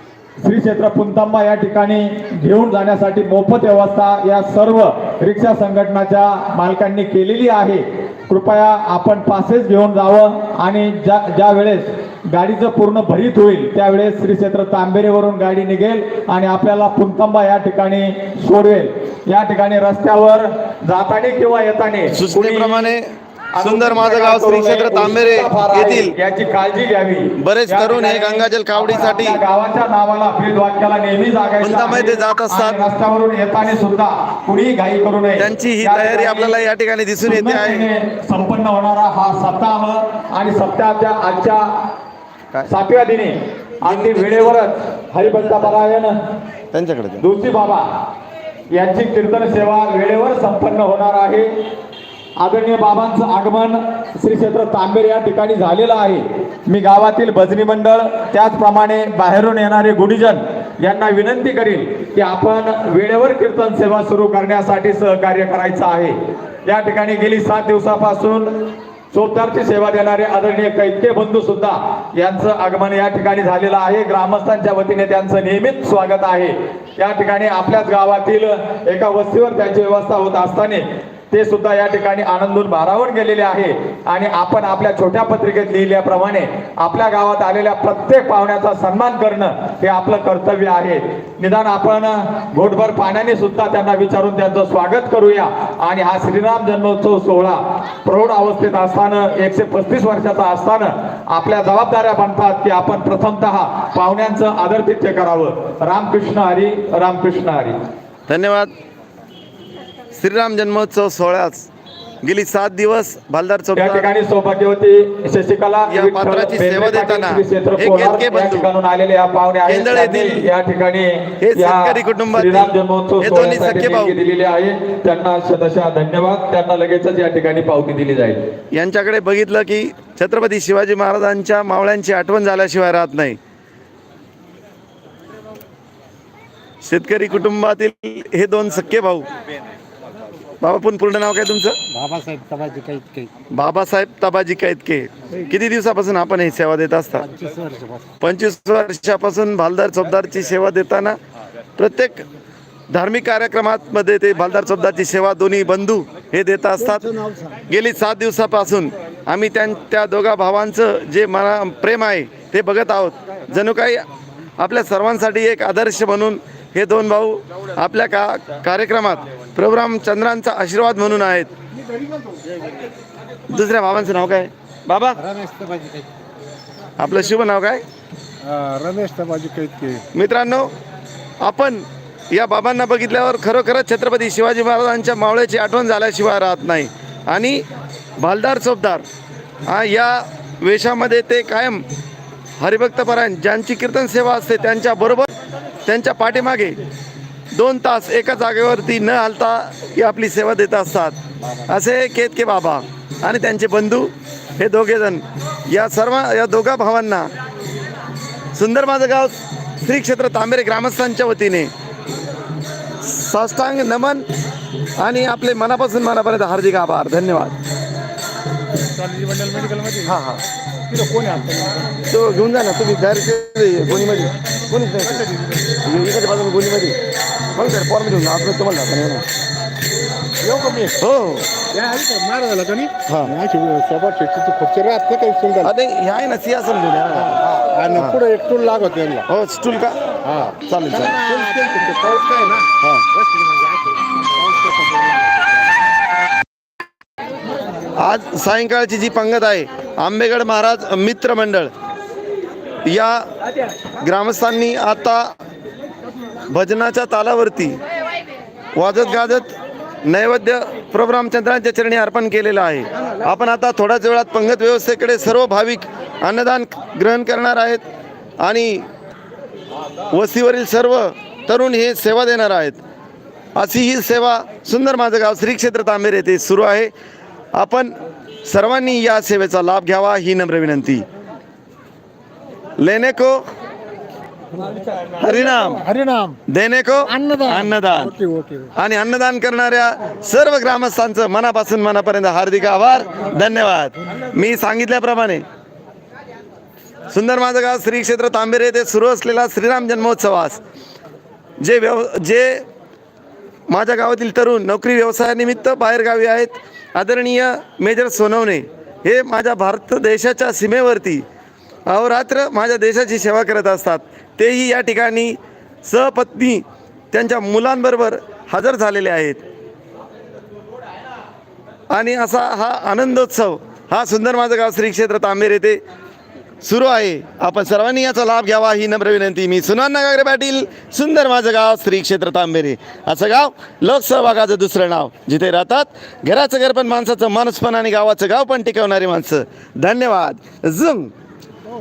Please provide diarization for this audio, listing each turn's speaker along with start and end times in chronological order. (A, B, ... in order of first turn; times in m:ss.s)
0:00.4-0:22.9 A
0:22.1-0:23.1 B
0:23.6-0:36.5 A
0:23.6-0:26.2 B
0:27.4-0:29.4 B
0:31.6-0:32.8 B
0:35.4-0:37.9 B
0:37.2-0:41.7 A
0:42.7-0:46.2 A
0:43.9-0:44.6 B
0:46.7-0:47.2 B
0:47.2-0:47.9 A
0:48.8-0:51.5 A
0:52.4-1:47.8 A
1:48.3-1:48.7 B
1:50.1-1:51.7 B
1:52.2-1:54.1 B
1:53.8-2:08.4 A
1:55.9-1:58.7 B
1:59.7-2:00.4 B
2:01.4-2:04.2 B
2:08.7-2:13.4 B
2:16.8-2:19.3 B
2:20.6-2:21.8 B
2:21.9-2:23.3 C
2:23.5-2:27.3 B
2:27.3-2:28.0 C
2:28.2-2:31.2 B
2:31.8-2:32.3 B
2:32.9-2:37.2 B
2:37.7-2:44.1 B
2:44.6-2:51.5 B
2:53.5-2:55.2 B
2:55.2-2:56.1 C
2:57.0-2:57.8 B
2:58.4-3:00.0 C
3:00.1-3:00.7 B
3:01.4-3:07.6 B
3:08.2-3:09.0 B
3:09.7-3:11.8 B
3:12.6-3:15.3 B
3:15.8-3:16.8 B
3:17.5-3:27.3 B
3:28.6-3:31.7 B
3:33.0-3:34.3 B
3:35.0-3:37.6 B
3:38.9-3:40.2 C
3:40.0-3:40.4 B
3:40.9-3:42.0 C
3:42.1-3:45.3 B
3:45.0-3:45.7 C
3:45.8-3:47.0 B
3:47.5-3:49.3 B
3:50.4-3:51.0 C
3:51.0-3:51.5 B
3:51.7-3:55.7 C
3:53.1-3:53.3 B
3:55.6-3:57.4 B
3:57.2-3:59.3 C
3:57.9-3:58.2 B
3:59.3-4:00.0 B
4:00.2-4:02.7 C
4:00.6-4:01.2 B
4:08.0-4:11.7 B
4:12.8-4:13.2 B
4:14.0-4:15.3 B
4:16.5-4:17.8 B
4:18.8-4:19.5 B
4:20.0-4:27.8 B
4:28.4-4:28.9 B
4:30.1-4:32.8 B
4:33.6-4:36.9 B
4:37.5-4:41.0 B
4:42.8-4:43.4 B
4:45.2-4:45.9 B
4:45.2-4:46.4 C
4:46.5-4:48.2 B
4:47.2-4:48.7 C
4:48.8-4:55.4 B
4:57.1-5:00.6 B
5:01.6-5:02.6 B
5:03.7-5:11.2 B
5:11.9-5:19.4 B
5:21.9-5:25.8 B
5:26.6-5:41.1 B